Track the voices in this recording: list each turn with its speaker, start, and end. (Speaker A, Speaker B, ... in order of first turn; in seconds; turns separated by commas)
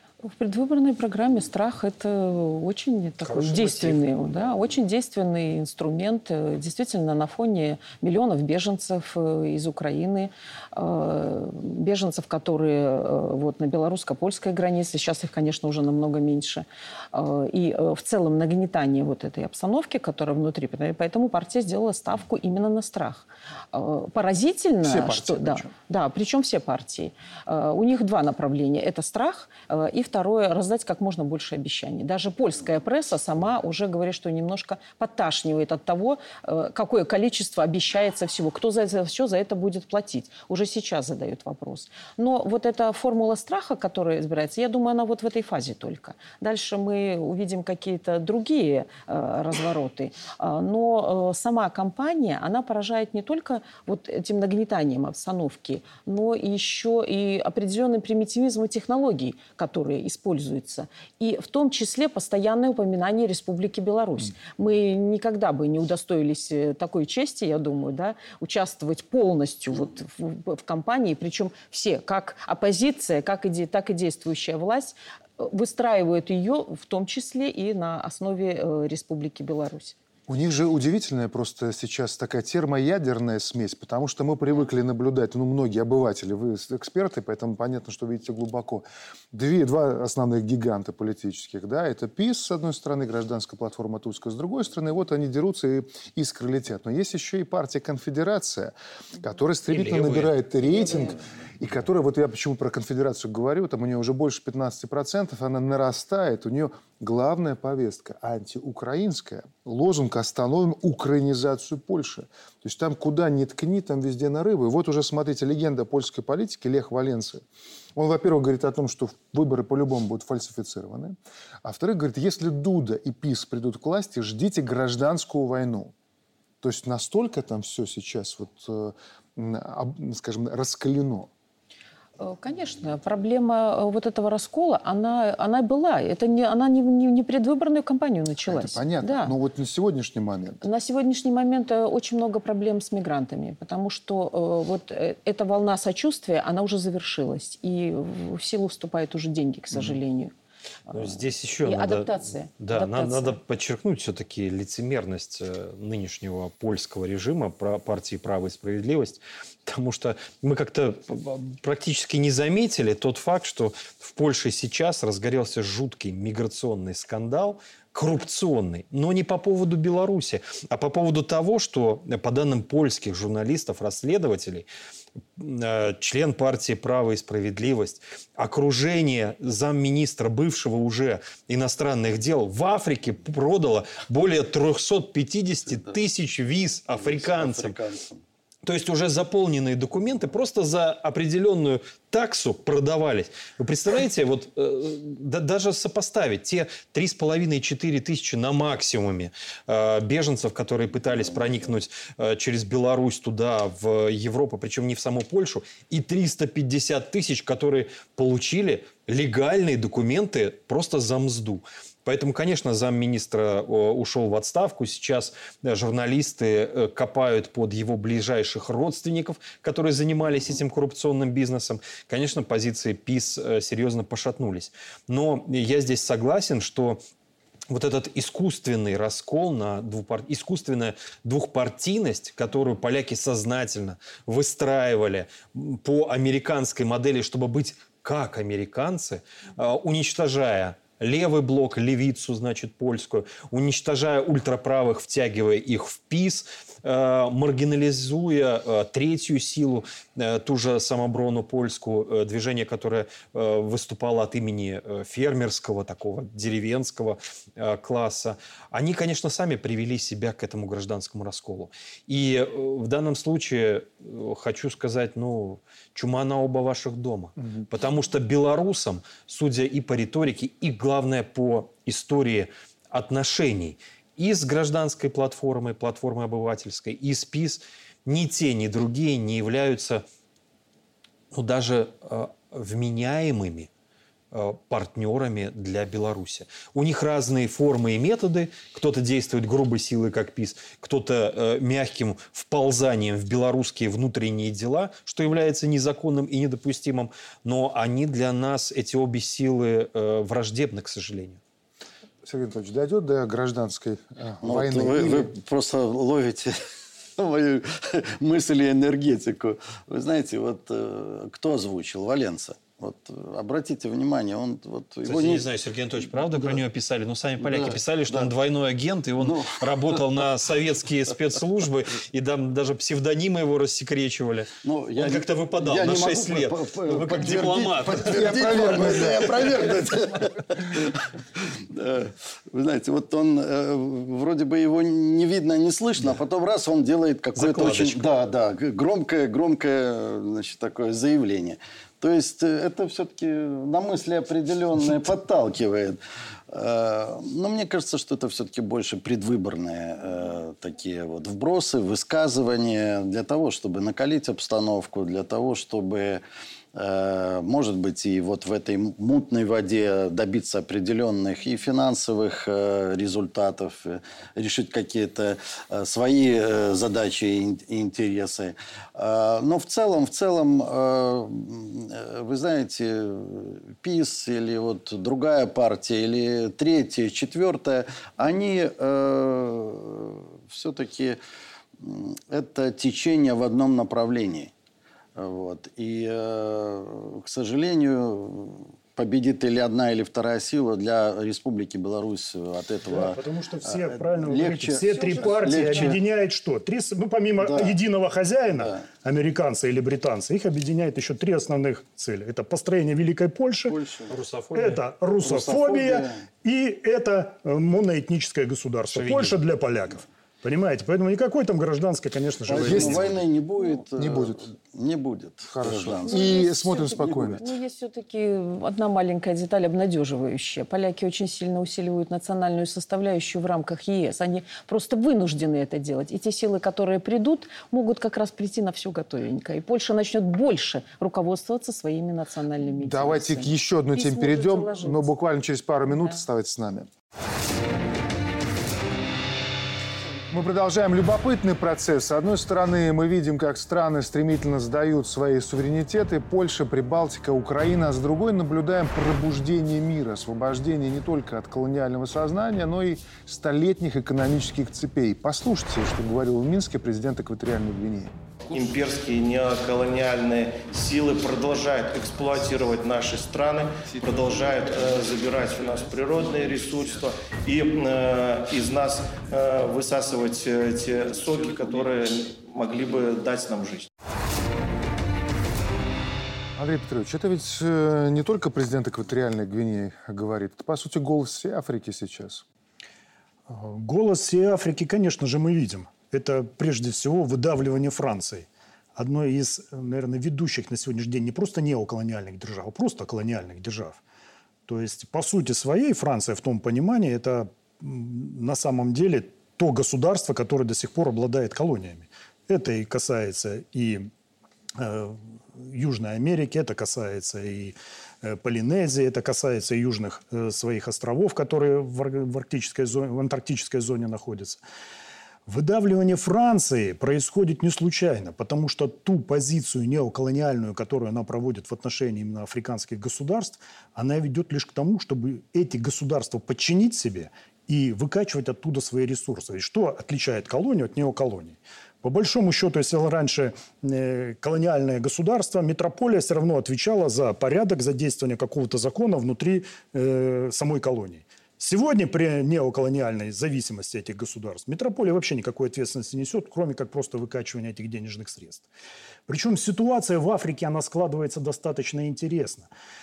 Speaker A: 0.2-80.0, Speaker B: 3.2-4.0, Speaker C: 24.8-25.7, Speaker C: 80.3-117.4, Speaker B: 99.7-100.4, Speaker C: 118.0-125.9, Speaker C: 126.6-131.3, Speaker A: 132.2-139.3, Speaker C: 138.5-140.6, Speaker A: 140.6-150.3, Speaker A: 150.9-153.4, Speaker B: 150.9-174.7, Speaker B: 175.4-187.8, Speaker D: 186.9-188.2, Speaker B: 188.6-227.0, Speaker B: 227.7-280.0, Speaker B: 281.3-283.7, Speaker B: 284.3-301.4, Speaker C: 302.2-305.3, Speaker D: 304.4-306.6, Speaker D: 307.2-315.5, Speaker B: 315.1-329.3, Speaker D: 316.0-316.6, Speaker D: 317.4-318.3, Speaker D: 319.2-320.2, Speaker D: 324.6-346.0, Speaker C: 328.0-329.5, Speaker B: 337.4-338.1, Speaker D: 346.5-356.2, Speaker D: 356.8-381.2, Speaker D: 381.8-384.5, Speaker D: 385.2-396.0, Speaker E: 392.9-403.8, Speaker D: 397.4-397.8, Speaker D: 398.5-398.9, Speaker D: 403.7-404.1, Speaker B: 404.1-404.8, Speaker E: 404.6-413.2, Speaker D: 405.2-406.2, Speaker B: 408.9-409.4, Speaker D: 412.5-417.4, Speaker C: 412.6-413.1, Speaker C: 413.9-414.5, Speaker C: 415.5-417.4, Speaker A: 416.1-435.1, Speaker C: 432.8-436.9, Speaker A: 435.9-436.2, Speaker C: 440.3-458.2, Speaker F: 458.5-473.9, Speaker C: 476.6-482.4, Speaker E: 483.5-494.0, Speaker E: 494.7-504.1, Speaker E: 504.8-514.6, Speaker E: 515.5-548.7, Speaker E: 549.3-552.7